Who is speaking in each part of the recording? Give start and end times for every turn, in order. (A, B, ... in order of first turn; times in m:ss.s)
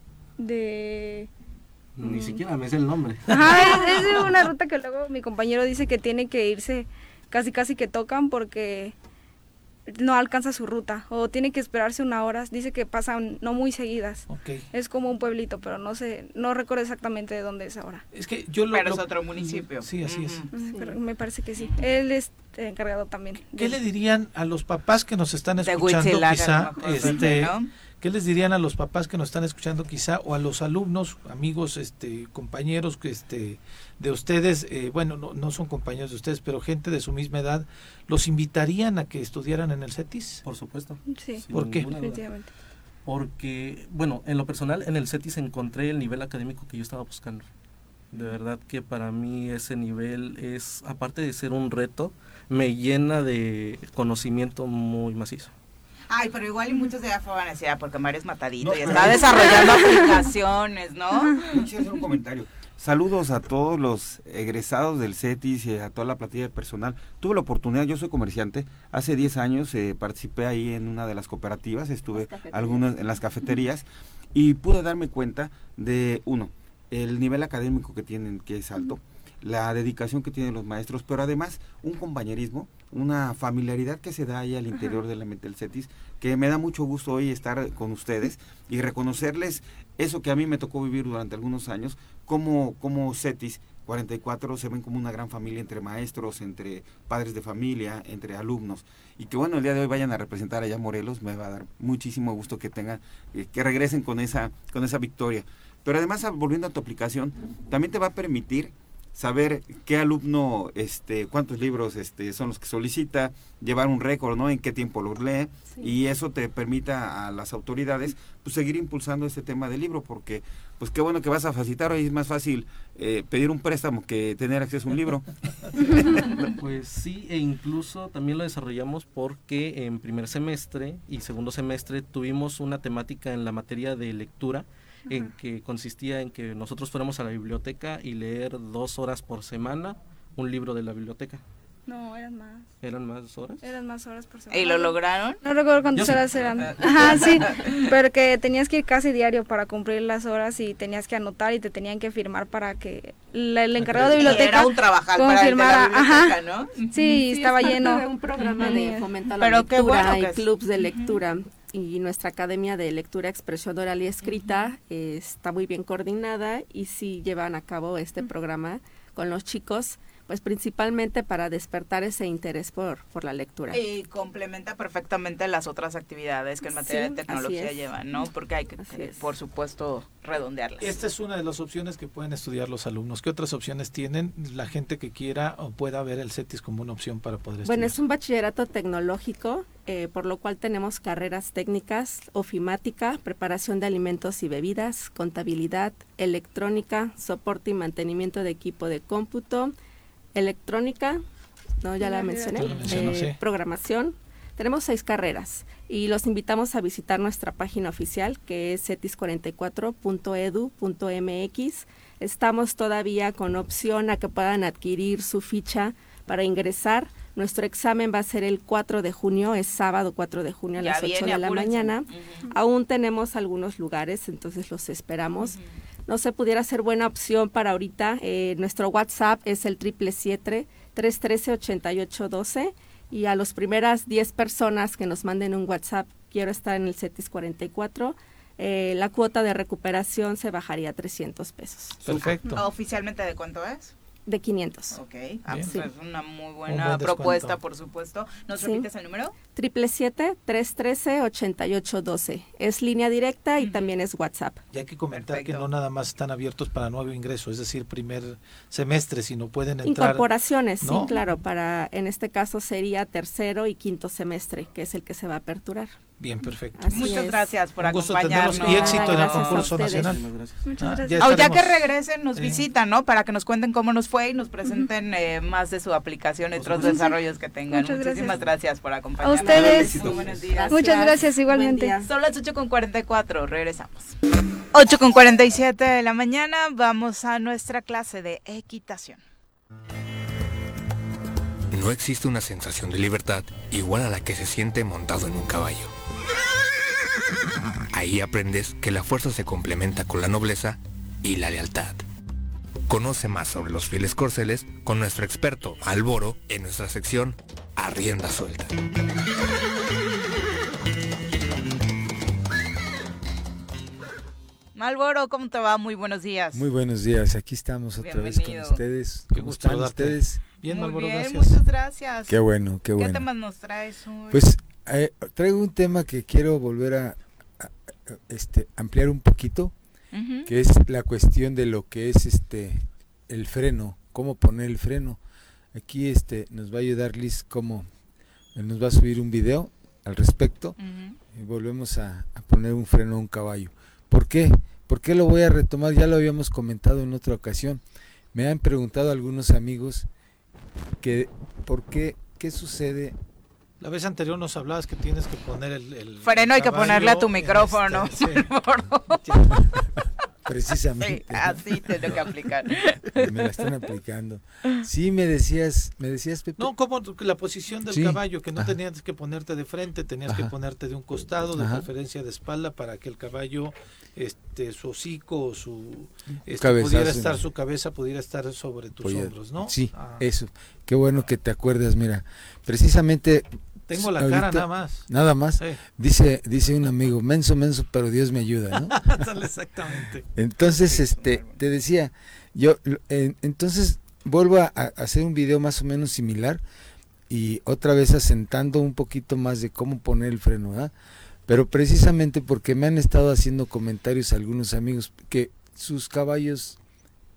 0:00.4-0:01.3 A
0:02.0-0:04.3 B
0:02.0-0:02.4 A
0:03.3-0:09.0 A
0:09.9-0:18.0 A
0:14.3-0:14.6 C
0:18.1-0:20.4 C
0:18.7-0:20.5 D
0:20.5-0:23.8 A
0:20.6-0:21.0 E
0:23.6-0:40.4 C
0:25.6-0:27.7 D
0:40.4-0:42.3 B
0:41.1-0:42.5 A
0:41.5-0:41.9 C
0:43.0-0:47.5 B
0:48.1-0:55.5 B
0:56.1-1:01.5 D
0:58.6-1:00.1 F
1:01.5-2:05.3 F
1:12.1-1:12.9 E
2:05.8-2:06.1 F
2:06.4-2:21.4 B
2:21.9-2:22.7 A
2:22.8-2:23.7 B
2:23.6-2:36.4 A
2:24.5-2:25.4 D
2:25.9-2:27.3 B
2:26.6-2:27.8 D
2:33.8-2:34.2 C
2:34.2-2:37.2 D
2:36.9-2:39.1 A
2:37.2-2:53.8 E
2:38.4-2:38.8 D
2:39.4-2:41.2 D
2:44.2-2:44.7 D
2:53.7-3:01.0 D
2:56.7-2:57.9 E
2:58.8-2:59.3 E
3:00.8-3:08.0 C
3:07.6-3:19.8 E
3:20.3-3:21.2 E
3:21.8-4:02.0 E
3:22.0-3:23.1 A
3:22.6-3:23.4 C
3:22.6-3:23.0 D
3:40.8-3:42.4 D
4:02.0-4:02.6 C
4:02.5-4:03.9 D
4:04.3-4:05.0 E
4:04.9-4:09.4 D
4:05.5-4:05.8 C
4:05.6-4:05.9 E
4:06.7-4:07.6 C
4:08.5-4:08.9 E
4:09.5-4:14.6 E
4:13.6-4:13.9 D
4:14.7-4:20.3 C
4:15.1-4:15.7 D
4:19.8-4:25.9 E
4:20.8-4:21.1 C
4:21.0-4:21.2 A
4:26.2-4:27.1 C
4:26.8-4:27.5 E
4:26.9-4:29.8 D
4:27.8-4:30.2 C
4:28.5-4:30.2 E
4:29.9-4:30.7 B
4:30.6-4:31.4 A
4:30.8-4:32.6 C
4:31.2-4:41.1 D
4:36.8-4:37.2 A
4:37.7-4:38.4 A
4:39.2-4:40.1 A
4:39.4-4:42.1 E
4:39.5-4:40.4 F
4:40.7-4:41.9 A
4:42.0-4:44.2 D
4:44.7-4:49.2 D
4:51.7-4:55.9 G
4:57.9-5:02.0 G
5:02.9-5:08.7 G
5:14.8-5:16.7 D
5:16.5-5:20.4 H
5:18.0-5:18.8 D
5:19.3-5:21.6 C
5:20.7-5:22.4 D
5:22.3-5:23.3 H
5:23.0-5:24.5 D
5:24.3-5:29.7 H
5:30.1-5:30.5 D
5:30.5-5:35.2 H
5:35.7-5:37.9 H
5:38.6-5:40.8 H
5:40.8-5:41.2 D
5:41.3-5:47.8 H
5:48.3-5:50.1 H
5:51.0-5:53.2 H
5:53.8-5:58.5 C
5:56.2-5:59.8 D
6:00.5-6:02.2 H
6:01.0-6:03.8 D
6:03.2-6:06.7 H
6:06.6-6:20.2 C
6:07.9-6:08.8 H
6:10.3-6:10.5 H
6:11.2-6:11.9 H
6:16.5-6:17.5 H
6:19.0-6:29.3 H
6:23.9-6:25.8 C
6:28.7-6:31.4 C
6:29.9-6:36.6 H
6:37.3-6:40.9 H
6:41.5-6:46.8 H